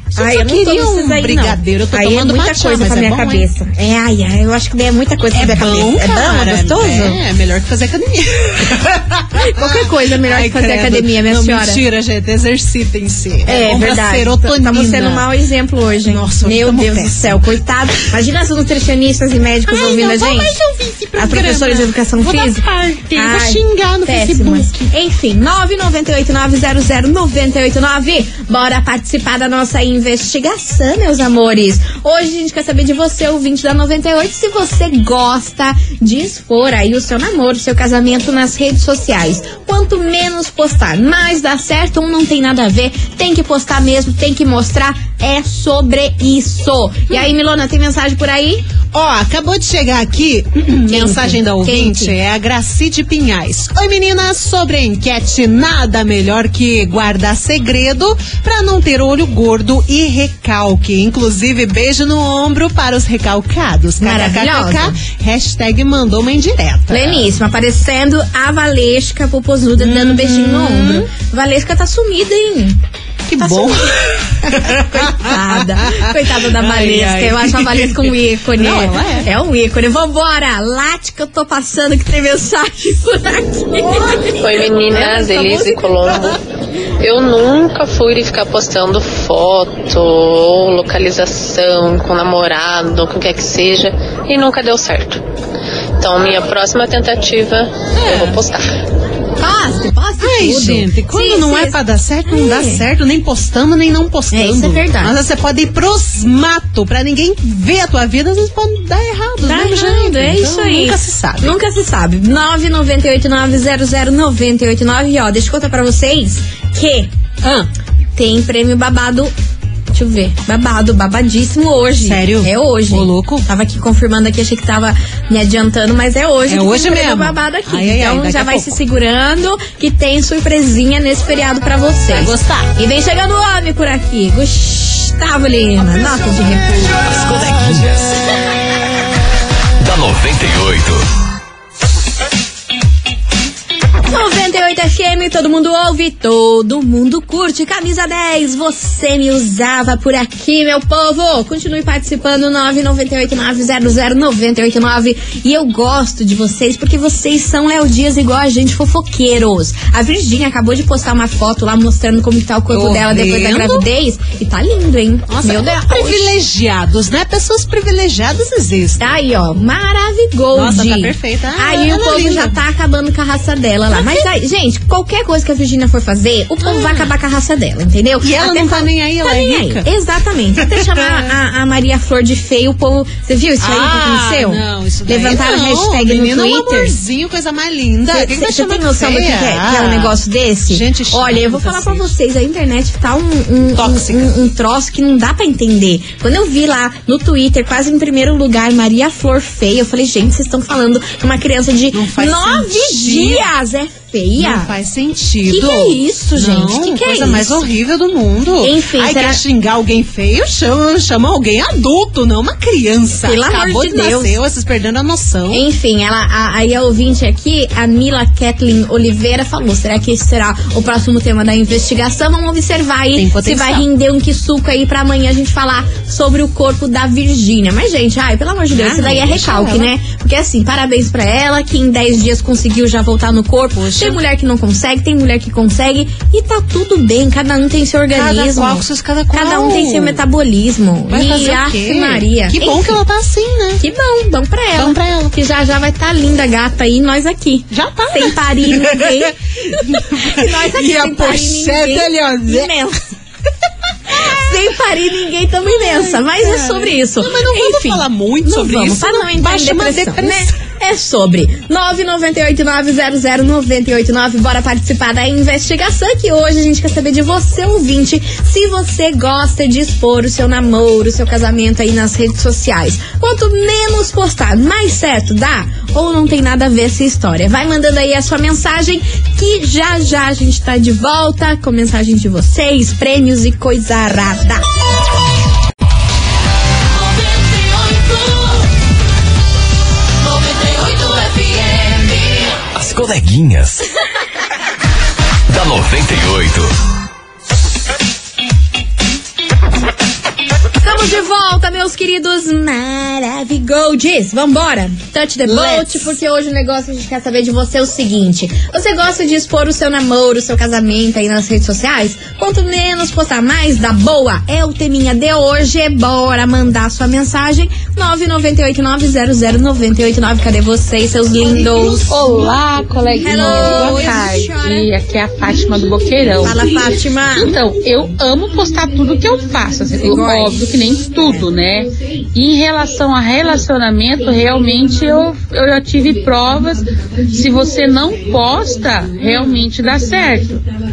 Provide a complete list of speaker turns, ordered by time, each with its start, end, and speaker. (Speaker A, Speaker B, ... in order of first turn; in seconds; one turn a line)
Speaker A: 0.1-3.5
Speaker B: 0.2-7.2
Speaker A: 5.3-15.3
Speaker B: 9.4-11.8
Speaker B: 13.5-20.6
Speaker A: 16.1-17.4
Speaker A: 19.7-24.9
Speaker B: 21.2-48.6
Speaker A: 48.9-67.3
Speaker B: 50.9-52.2
Speaker B: 64.0-65.0
Speaker B: 66.9-72.8
Speaker A: 69.8-71.1
Speaker A: 73.3-79.3
Speaker B: 73.4-86.2
Speaker A: 84.0-84.3
Speaker C: 84.4-86.4
Speaker C: 87.0-95.2
Speaker C: 96.0-98.8
Speaker A: 97.9-98.4
Speaker B: 99.4-102.8
Speaker A: 100.2-111.6
Speaker B: 104.3-105.1
Speaker B: 109.4-117.1
Speaker A: 117.4-117.7
Speaker B: 118.2-119.3
Speaker B: 119.9-137.0
Speaker A: 122.0-123.5
Speaker A: 126.5-128.8
Speaker A: 132.1-132.7
Speaker D: 137.1-138.2
Speaker D: 139.8-141.1
Speaker B: 144.1-166.3
Speaker A: 162.7-163.9
Speaker A: 165.3-169.2
Speaker B: 169.0-187.0
Speaker A: 170.5-172.6
Speaker A: 173.9-174.3
Speaker A: 176.6-177.1
Speaker A: 178.2-179.9
Speaker A: 180.6-181.4
Speaker A: 183.6-192.1
Speaker B: 188.1-204.7
Speaker A: 193.8-194.3
Speaker A: 201.9-203.5
Speaker A: 204.4-215.7
Speaker B: 205.5-207.7
Speaker B: 208.6-209.4
Speaker B: 213.2-214.4
Speaker B: 215.5-243.0
Speaker A: 223.1-223.9
Speaker A: 228.7-229.9
Speaker A: 233.7-234.2
Speaker A: 238.1-240.2
Speaker A: 241.1-243.8
Speaker B: 243.8-253.0
Speaker A: 244.8-245.3
Speaker A: 247.7-252.7
Speaker A: 254.1-254.8
Speaker B: 254.1-284.6
Speaker A: 255.7-260.5
Speaker D: 291.2-292.1
Speaker D: 292.7-293.9
Speaker D: 295.5-296.7
Speaker B: 300.8-322.1
Speaker A: 305.5-306.1
Speaker A: 321.4-322.2
Speaker E: 322.1-340.6
Speaker B: 323.2-324.9
Speaker A: 323.3-324.2
Speaker B: 326.4-327.6
Speaker B: 330.0-330.6